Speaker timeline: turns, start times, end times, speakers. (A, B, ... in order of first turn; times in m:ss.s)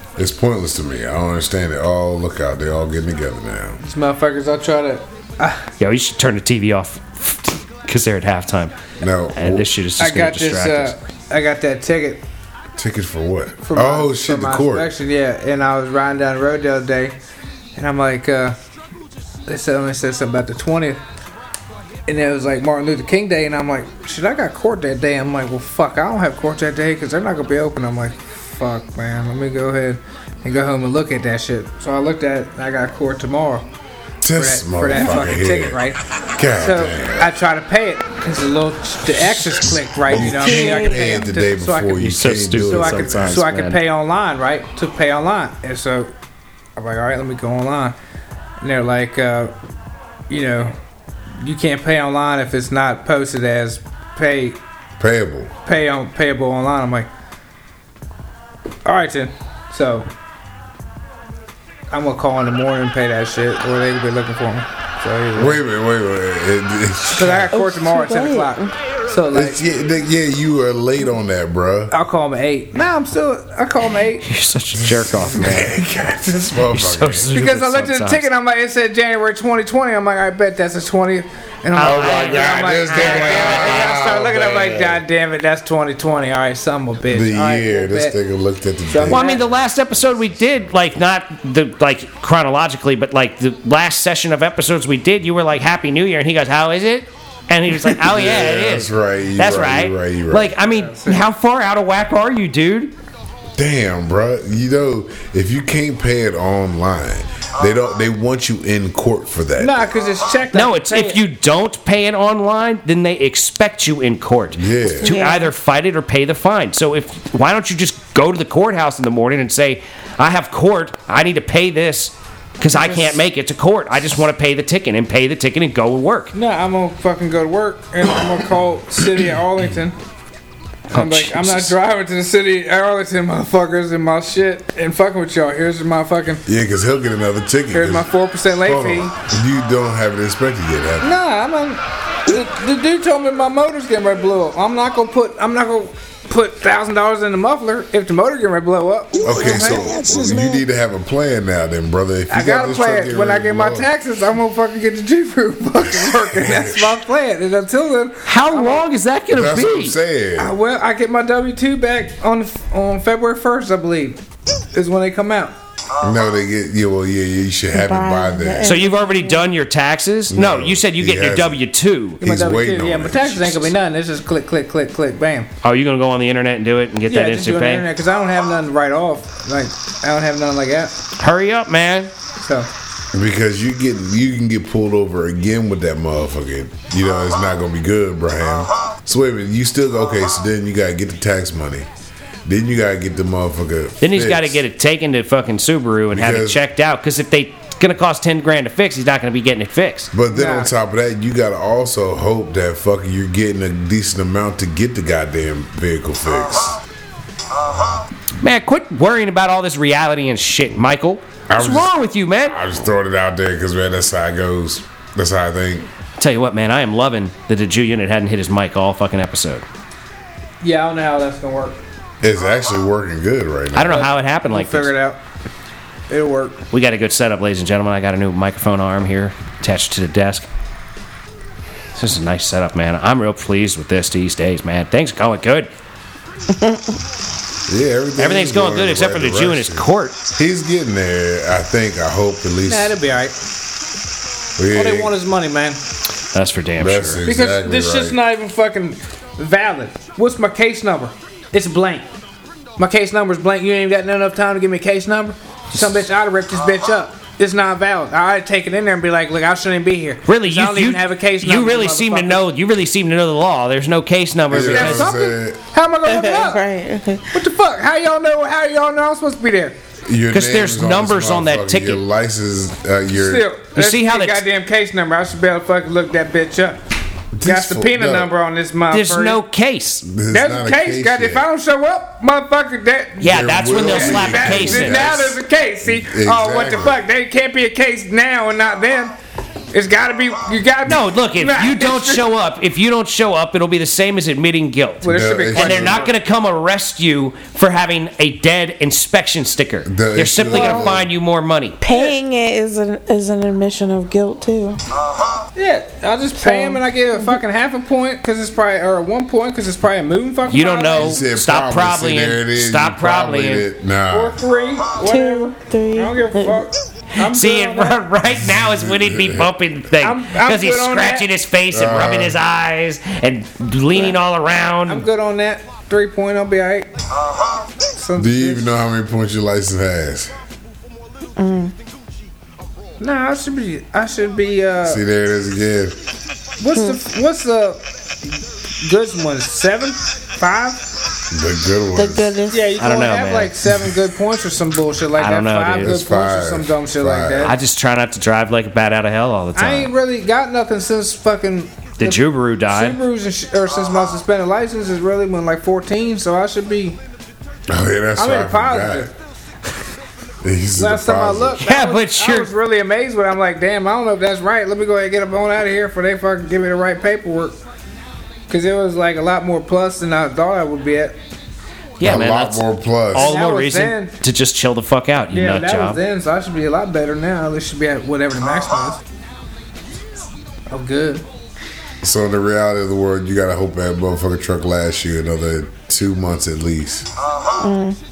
0:00.2-0:03.8 A
0:03.8-0:05.6 B
0:05.8-0:08.8 C
0:09.0-0:09.7 A
0:09.3-0:10.9 C
0:10.0-0:12.2 B
0:12.8-0:14.9 A
0:13.6-0:17.1 B
0:17.8-0:18.6 B
0:19.5-0:21.0 B
0:22.1-0:33.6 B
0:34.2-0:37.3 A
0:34.3-0:36.0 B
0:36.6-0:46.1 B
0:39.1-0:43.4 A
0:40.1-0:41.2 D
0:42.0-0:43.8 C
0:46.8-0:48.0 B
0:48.6-0:49.5 B
0:50.3-0:50.7 B
0:51.4-0:54.6 B
0:55.0-0:55.5 A
0:55.6-0:57.1 B
0:58.8-1:00.1 B
1:01.9-1:05.6 B
1:05.3-1:07.5 A
1:07.1-1:09.6 B
1:07.5-1:08.7 D
1:09.3-1:11.9 A
1:11.9-1:14.3 B
1:14.2-1:15.7 C
1:14.8-1:17.3 A
1:16.7-1:18.3 C
1:17.3-1:28.2 B
1:21.8-1:23.9 C
1:21.8-1:25.0 A
1:27.1-1:29.3 A
1:28.9-1:29.5 B
1:29.0-1:42.9 C
1:37.9-1:40.5 A
1:40.4-1:41.2 B
1:43.6-1:49.8 A
1:49.6-1:51.2 B
1:50.5-2:06.3 C
1:54.6-1:55.1 A
1:55.0-1:55.5 D
2:02.6-2:03.2 B
2:06.3-2:10.0 B
2:10.9-2:16.4 B
2:10.9-2:11.7 C
2:16.4-2:21.1 A
2:17.7-2:19.1 B
2:21.0-2:30.0 B
2:29.2-2:33.9 A
2:29.2-2:30.6 D
2:32.3-2:38.8 B
2:35.9-2:37.0 A
2:38.2-2:40.0 C
2:39.3-2:40.5 A
2:40.4-2:44.2 B
2:44.7-2:45.5 B
2:46.0-2:48.7 A
2:47.7-2:49.5 D
2:48.6-2:52.2 C
2:50.3-2:51.6 A
2:52.2-2:53.7 A
2:52.2-2:55.5 B
2:55.6-2:57.9 C
2:57.1-3:00.9 B
3:01.2-3:02.1 C
3:02.4-3:02.7 B
3:03.1-3:11.9 A
3:12.4-3:14.6 A
3:14.0-3:20.1 C
3:16.1-3:16.6 A
3:20.1-3:26.8 A
3:20.3-3:20.7 B
3:28.4-3:32.6 C
3:31.5-3:35.9 A
3:36.2-3:39.6 C
3:40.6-3:41.8 B
3:42.2-3:44.1 A
3:43.7-3:44.9 C
3:44.0-3:45.2 B
3:46.1-3:46.6 B
3:46.7-3:50.5 C
3:51.9-3:55.7 C
3:57.7-4:03.0 A
3:58.2-4:00.2 C
4:02.7-4:03.3 B
4:04.6-4:05.1 A
4:04.7-4:05.8 B
4:06.3-4:07.2 C
4:06.8-4:08.2 A
4:07.2-4:12.1 B
4:12.8-4:22.4 B
4:20.3-4:25.1 C
4:24.5-4:25.6 A
4:24.5-4:26.6 B
4:26.0-4:27.2 D
4:27.3-4:29.8 B
4:30.0-4:33.4 A
4:30.3-4:32.0 C
4:33.1-4:36.8 B
4:33.7-4:34.4 C
4:37.3-4:38.3 A
4:37.4-4:39.4 B
4:38.9-4:40.0 C
4:40.0-4:41.5 A
4:40.3-4:49.1 B
4:43.2-4:45.2 C
4:43.2-4:47.0 A
4:49.7-4:52.2 B
4:50.8-5:01.8 C
4:55.0-4:56.1 B
4:55.0-4:56.1 A
4:59.8-5:01.1 A
5:00.5-5:00.9 B
5:01.8-5:04.8 D
5:01.9-5:02.2 B
5:05.6-5:11.2 B
5:06.4-5:07.4 D
5:10.5-5:13.6 C
5:10.9-5:14.4 A
5:14.1-5:18.0 B
5:15.0-5:16.6 D
5:17.2-5:25.0 C
5:18.4-5:19.5 A
5:20.0-5:21.3 B
5:21.7-5:22.4 A
5:24.9-5:26.9 B
5:28.0-5:28.7 B
5:28.2-5:30.3 A
5:31.4-5:31.7 D
5:33.0-5:35.0 B
5:34.8-5:36.0 A
5:36.6-5:37.8 B
5:38.8-5:40.8 B
5:41.3-5:42.4 A
5:42.0-5:42.7 D
5:42.5-5:47.5 B
5:42.8-5:43.5 C
5:45.2-5:45.9 C
5:45.8-5:47.5 A
5:47.4-5:49.9 C
5:49.6-5:57.0 B
5:52.0-5:53.0 C
5:57.7-5:59.1 A
5:58.2-5:59.1 B
6:00.4-6:01.6 A
6:00.8-6:07.6 B
6:01.6-6:02.5 C
6:08.5-6:11.2 B
6:12.0-6:16.0 C
6:12.0-6:13.3 A
6:13.1-6:14.1 B
6:15.3-6:19.0 B
6:20.7-6:21.2 B
6:22.0-6:27.1 A
6:27.6-6:28.0 D